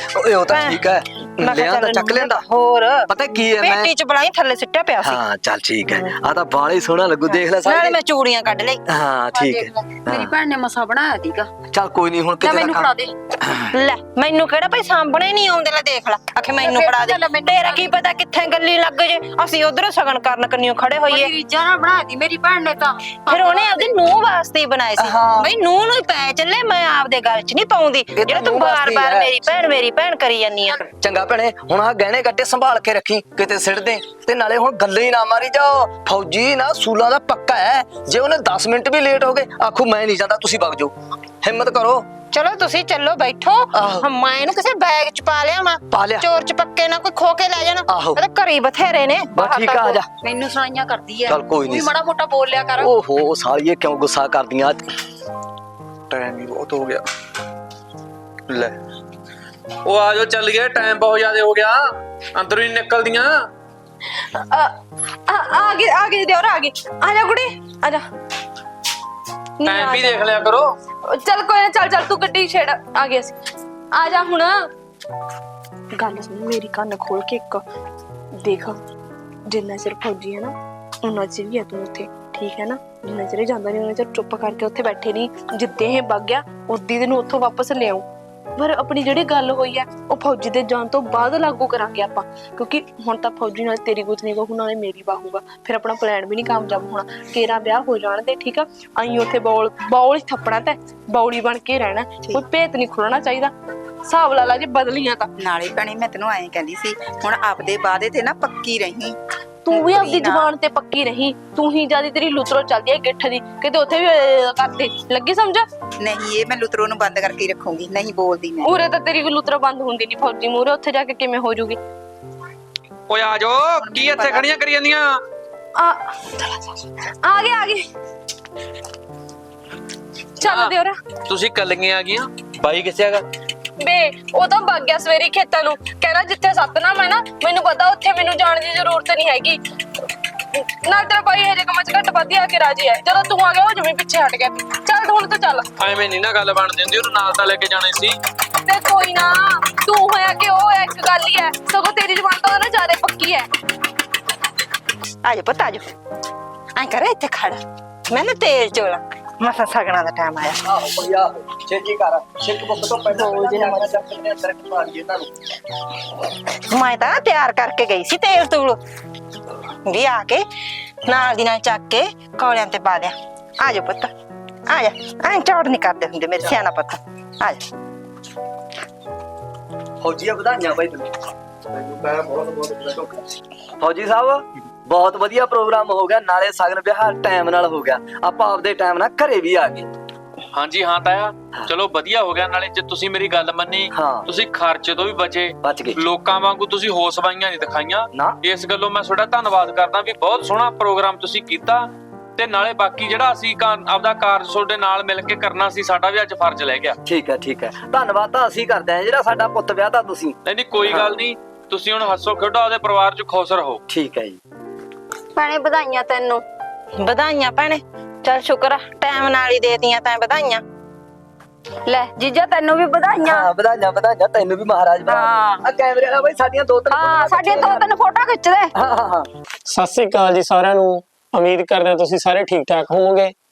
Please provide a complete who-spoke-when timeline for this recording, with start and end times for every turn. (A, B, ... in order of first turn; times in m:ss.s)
0:00.1-0:02.4 A
0:00.5-0:00.8 B
0:01.4-0:05.2 B
0:03.1-0:03.9 A
0:05.0-0:08.0 A
0:07.3-0:08.8 B
0:08.9-0:10.3 A
0:09.3-0:11.5 C
0:11.7-0:12.9 A
0:12.4-0:13.1 C
0:13.4-0:13.7 A
0:13.7-0:21.3 B
0:16.6-0:18.0 C
0:21.1-0:24.0 C
0:23.3-0:30.8 B
0:25.0-0:25.5 A
0:28.2-0:29.5 A
0:31.0-0:42.1 A
0:42.3-0:50.0 B
0:43.7-0:44.0 A
0:45.9-0:46.3 A
0:47.9-0:48.2 A
0:49.3-0:50.0 A
0:50.1-0:52.9 C
0:51.3-0:51.9 A
0:52.8-0:54.8 A
0:56.1-0:57.0 D
0:58.5-0:58.7 D
0:59.8-1:03.3 D
1:04.3-1:04.7 E
1:05.3-1:08.0 E
1:09.6-1:10.3 E
1:09.6-1:10.7 D
1:11.1-1:13.4 E
1:13.9-1:14.7 E
1:15.9-1:17.6 E
1:18.4-1:18.8 E
1:19.5-1:28.0 E
1:28.6-1:43.5 E
1:44.0-1:45.3 E
1:45.4-1:49.2 F
1:49.6-1:55.7 E
1:49.7-1:50.4 F
1:56.0-1:58.7 F
1:58.6-2:01.8 E
2:03.1-2:05.2 D
2:05.8-2:07.8 E
2:10.4-2:10.7 D
2:10.4-2:11.0 E
2:11.3-2:13.2 D
2:13.8-2:19.6 E
2:20.5-2:25.7 E
2:25.8-2:28.2 D
2:28.6-2:33.5 E
2:35.2-2:35.8 B
2:36.8-2:40.6 B
2:40.6-2:45.3 A
2:43.1-2:43.9 B
2:46.7-2:48.8 B
2:49.9-2:50.4 B
2:51.1-2:54.1 B
2:54.7-2:57.6 B
3:00.0-3:01.1 A
3:01.7-3:03.2 A
3:03.8-3:09.9 A
3:10.5-3:27.0 D
3:13.9-3:14.2 A
3:15.6-3:16.0 A
3:27.0-3:31.1 A
3:30.4-3:33.8 D
3:33.9-3:34.4 A
3:35.4-3:36.4 C
3:37.0-3:40.6 B
3:41.8-3:43.5 C
3:43.2-3:47.8 A
3:45.1-3:45.6 C
3:46.9-3:48.7 C
3:48.7-3:49.3 A
3:49.7-3:53.3 G